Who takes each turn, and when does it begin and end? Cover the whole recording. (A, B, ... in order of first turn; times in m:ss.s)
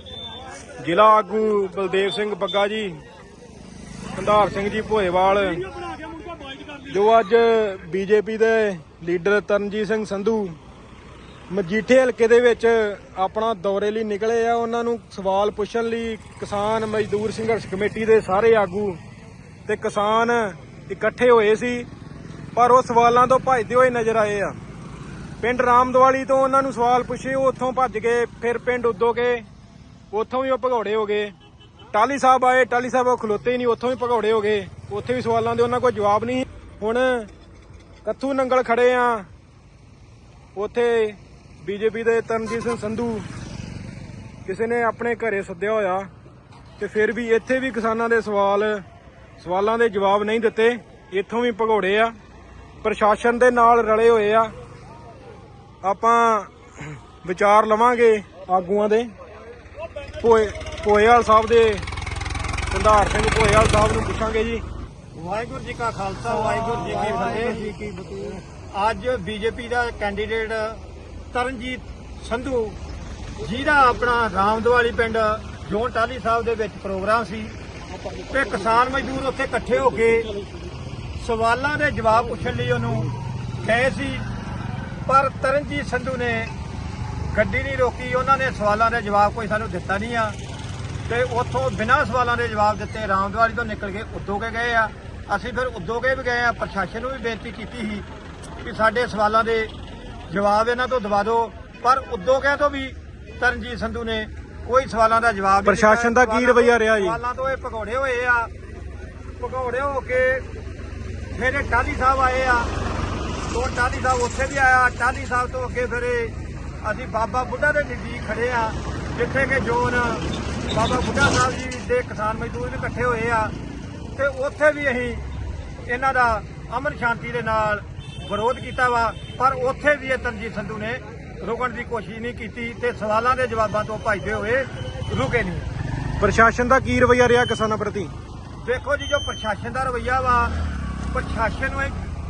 0:00.8-0:03.0 A
0:04.2-0:05.6 A
0:06.9-0:10.6 A
0:11.5-0:19.0 A
0:19.7-0:21.9 A
0:22.6-0:24.6 A
0:25.4-0:29.5 A
0:30.1-0:31.3 A
0:31.9-0:37.3 A
0:38.0-0:39.3 A
0:40.6-0:43.3 A
0:44.4-0:46.1 A
0:46.8-0:48.8 A
0:49.4-0:52.1 A
0:52.8-0:54.5 A
0:55.8-0:56.5 A
0:57.2-0:59.1 A
1:00.2-1:01.9 A
1:02.7-1:04.6 A
1:05.2-1:07.9 B
1:08.7-1:12.8 B
1:13.4-1:17.5 B
1:18.3-1:20.4 B
1:21.2-1:24.3 B
1:25.1-1:26.5 B
1:27.3-1:30.4 B
1:31.1-1:38.1 B
1:38.6-1:39.7 B
1:40.3-1:48.5 B
1:45.6-1:47.2 A
1:49.4-1:50.4 B
1:51.4-1:52.7 B
1:53.5-2:03.5 B
2:04.2-2:05.3 B
2:05.9-2:15.7 B
2:16.2-2:18.1 A
2:18.6-2:20.5 B
2:21.1-2:22.1 B